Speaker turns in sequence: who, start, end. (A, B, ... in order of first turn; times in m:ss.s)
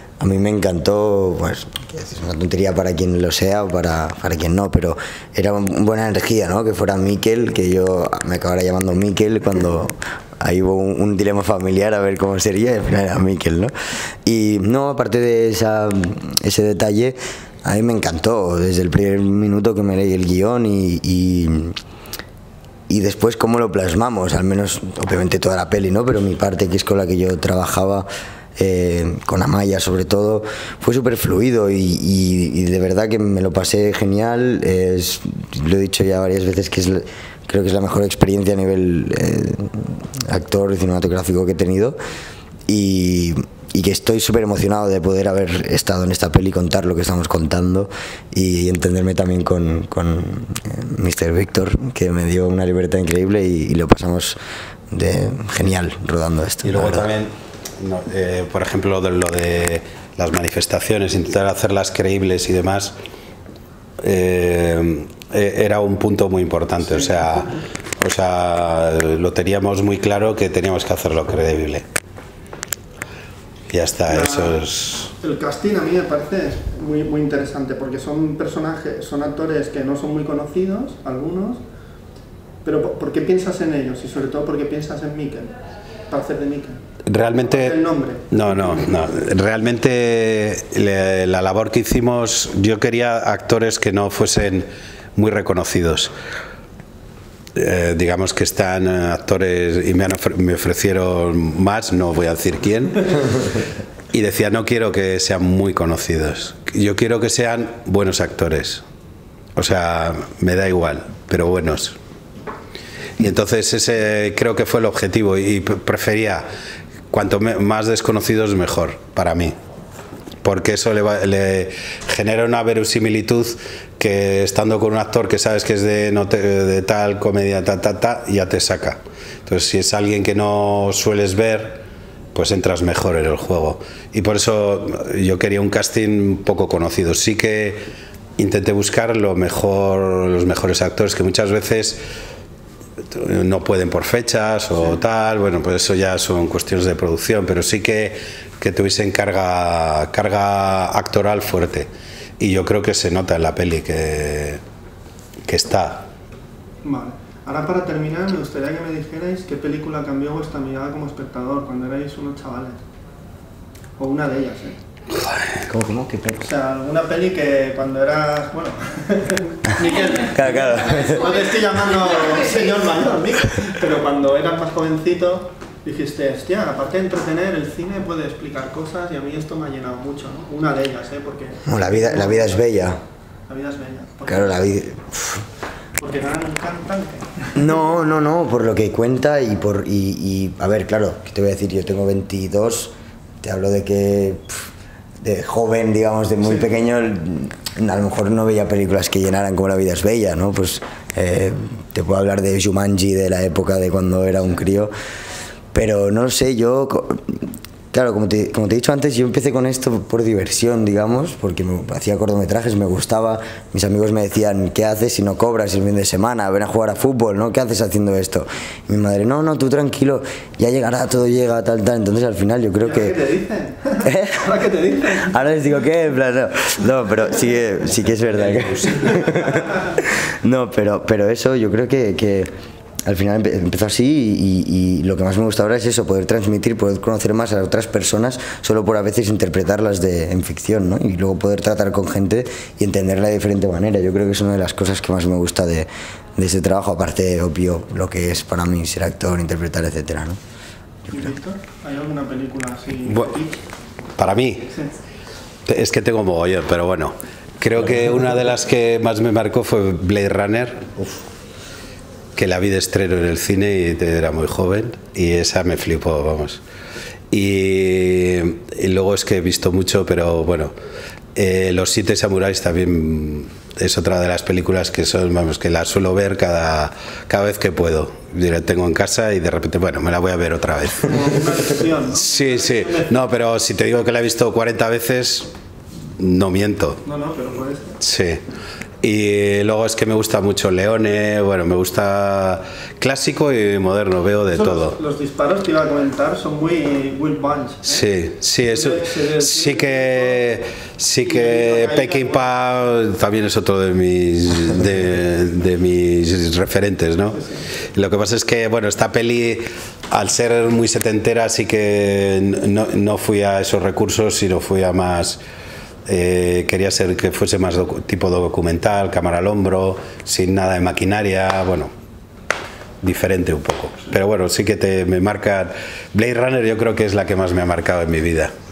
0:00.2-0:13.7 A
0:14.2-0:21.8 A
0:22.9-0:42.0 A
0:42.7-0:54.4 A
0:54.9-0:57.1 A
0:56.6-1:03.0 B
1:04.0-1:11.8 B
1:07.0-1:07.3 C
1:13.7-1:15.1 B
1:14.1-1:14.6 C
1:15.2-1:21.6 C
1:22.6-1:25.5 C
1:26.1-1:26.8 C
1:27.1-1:27.8 B
1:27.4-1:28.9 C
1:28.3-1:36.1 B
1:37.6-1:43.5 B
1:44.1-1:48.8 B
1:49.6-1:52.0 B
1:53.2-1:56.5 B
1:57.1-1:59.6 B
2:00.4-2:11.8 B
2:12.4-2:17.8 B
2:18.4-2:22.0 B
2:23.1-2:34.6 B
2:35.5-2:36.1 B
2:36.8-2:42.8 C
2:44.0-2:44.8 C
2:45.1-2:45.7 B
2:45.7-2:46.4 A
2:46.4-3:02.7 C
2:50.3-2:51.3 A
3:01.7-3:03.0 A
3:03.5-3:04.7 C
3:04.3-3:05.4 A
3:06.0-3:07.9 C
3:07.6-3:12.9 A
3:13.4-3:14.6 A
3:15.2-3:24.9 A
3:25.7-3:43.2 A
3:42.8-3:45.4 C
3:44.0-3:44.5 A
3:45.2-3:52.5 A
3:48.1-3:49.3 B
3:53.1-4:10.4 A
4:11.1-4:13.6 C
4:14.2-4:14.7 B
4:15.7-4:21.0 B
4:22.4-4:26.6 B
4:27.3-4:30.7 B
4:31.4-4:41.4 B
4:41.0-4:43.1 C
4:42.1-4:45.5 B
4:46.2-4:47.0 B
4:47.0-4:48.0 C
4:48.0-4:48.4 B
4:49.0-4:55.0 B
4:54.5-4:58.1 C
4:57.8-5:15.4 B
4:58.7-5:00.6 C
5:01.2-5:02.5 C
5:16.1-5:21.9 B
5:23.0-5:28.5 B